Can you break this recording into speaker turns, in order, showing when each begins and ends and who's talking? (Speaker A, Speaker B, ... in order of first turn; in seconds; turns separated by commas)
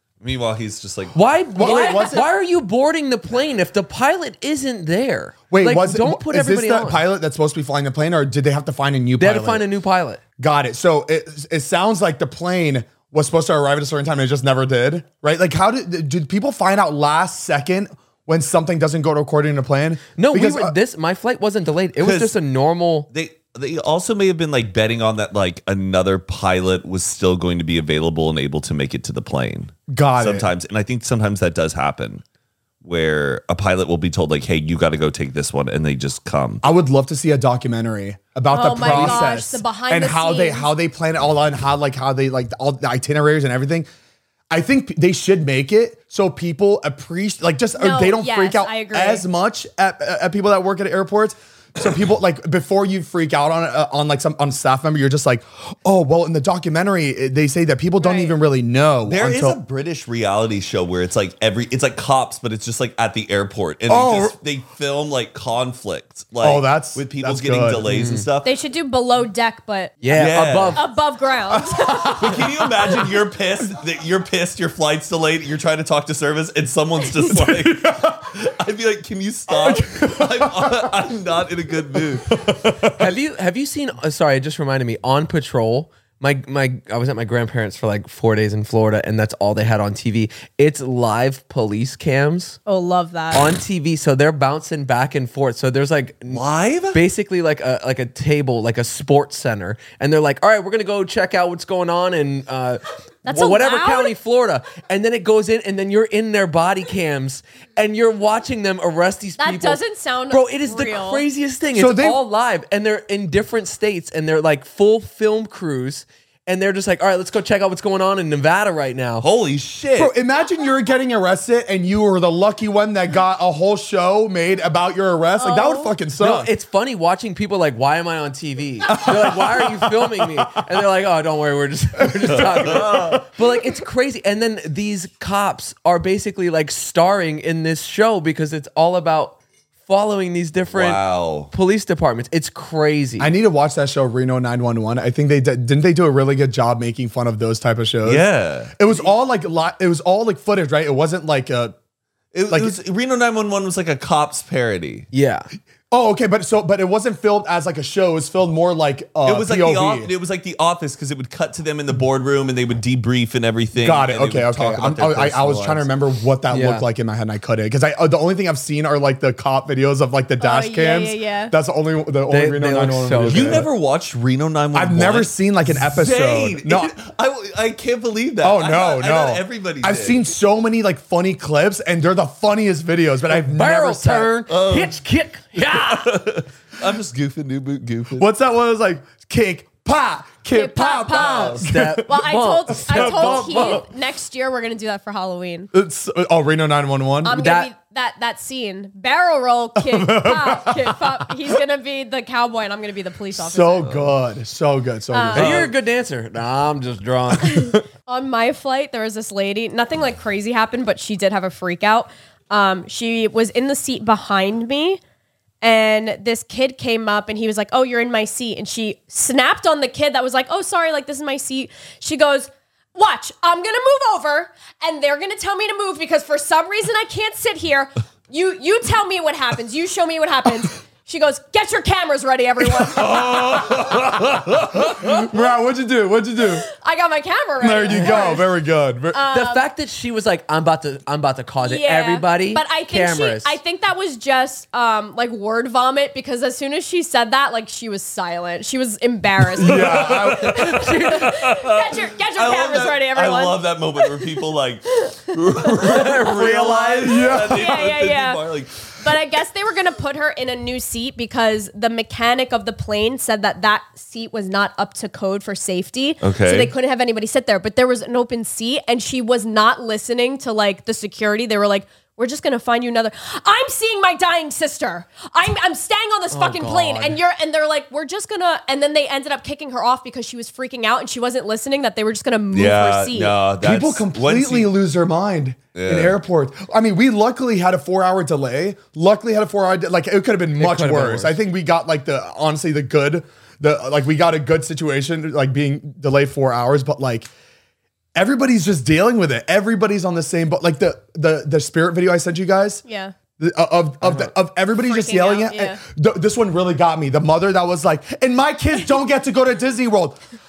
Speaker A: 0.2-1.2, Speaker B: 1.1-7.0, Speaker C: 1.6-2.2, Speaker D: 1.6-2.3, Speaker C: 5.5-9.7, Speaker B: 9.2-10.2, Speaker C: 10.4-20.8, Speaker B: 20.2-23.1, Speaker A: 22.0-22.4, Speaker A: 23.1-32.2, Speaker C: 29.9-30.5, Speaker A: 32.8-36.6, Speaker C: 36.6-43.9, Speaker D: 38.5-40.7, Speaker A: 38.8-39.2, Speaker C: 44.5-59.6, Speaker D: 47.8-49.3, Speaker D: 58.0-58.4, Speaker A: 59.1-68.5, Speaker C: 63.9-64.4, Speaker C: 66.4-67.9, Speaker B: 67.9-68.3, Speaker D: 68.4-70.0, Speaker B: 70.0-70.8, Speaker A: 70.1-70.8, Speaker D: 70.8-72.3, Speaker C: 71.5-72.5, Speaker A: 72.1-82.4, Speaker C: 77.0-78.3, Speaker C: 79.5-81.0, Speaker C: 82.3-83.1, Speaker B: 83.0-92.6, Speaker D: 92.7-93.5, Speaker B: 93.3-96.4, Speaker A: 96.3-97.0, Speaker B: 96.9-109.8, Speaker D: 103.2-104.1, Speaker D: 109.4-111.2, Speaker B: 110.3-119.3, Speaker C: 111.8-112.2, Speaker A: 119.2-120.1, Speaker C: 120.0-126.5, Speaker D: 125.4-125.9, Speaker B: 126.2-143.3, Speaker C: 128.9-130.5, Speaker C: 132.2-133.1, Speaker A: 132.3-133.2, Speaker A: 140.7-141.5, Speaker C: 143.2-151.8, Speaker A: 148.1-149.1, Speaker A: 152.3-155.1, Speaker C: 152.5-152.8, Speaker B: 155.1-155.5, Speaker C: 155.9-160.1, Speaker A: 159.2-165.9, Speaker C: 163.8-173.7, Speaker B: 166.5-166.9, Speaker D: 170.4-171.6, Speaker B: 172.3-173.7, Speaker A: 173.2-180.2, Speaker C: 174.7-176.9, Speaker C: 178.4-184.4, Speaker B: 183.3-186.1, Speaker A: 184.5-185.0, Speaker A: 185.6-188.3, Speaker C: 188.1-192.1, Speaker D: 190.5-195.7, Speaker A: 191.2-191.5, Speaker B: 191.6-193.8, Speaker C: 192.8-193.8, Speaker C: 195.7-197.4, Speaker D: 197.2-203.9, Speaker B: 197.3-197.7, Speaker C: 199.8-201.6, Speaker C: 203.3-205.7, Speaker D: 205.1-205.6, Speaker B: 205.3-207.7, Speaker D: 207.4-215.0, Speaker D: 215.6-233.6, Speaker C: 232.6-236.7, Speaker A: 233.0-235.1, Speaker D: 236.7-238.5, Speaker C: 237.6-239.2, Speaker B: 237.9-238.3, Speaker D: 239.1-239.7, Speaker B: 239.3-243.6, Speaker D: 241.6-283.4, Speaker C: 249.6-251.2, Speaker A: 249.8-250.6, Speaker B: 250.8-251.3, Speaker A: 251.1-258.9, Speaker B: 255.9-257.0, Speaker C: 257.1-257.8, Speaker A: 266.2-266.7, Speaker B: 276.3-277.2, Speaker A: 282.5-284.7, Speaker C: 283.6-297.3, Speaker A: 285.8-286.2, Speaker B: 290.6-291.4, Speaker C: 298.1-302.8, Speaker D: 302.9-303.1, Speaker C: 303.4-310.2, Speaker B: 304.0-304.3, Speaker D: 304.8-305.8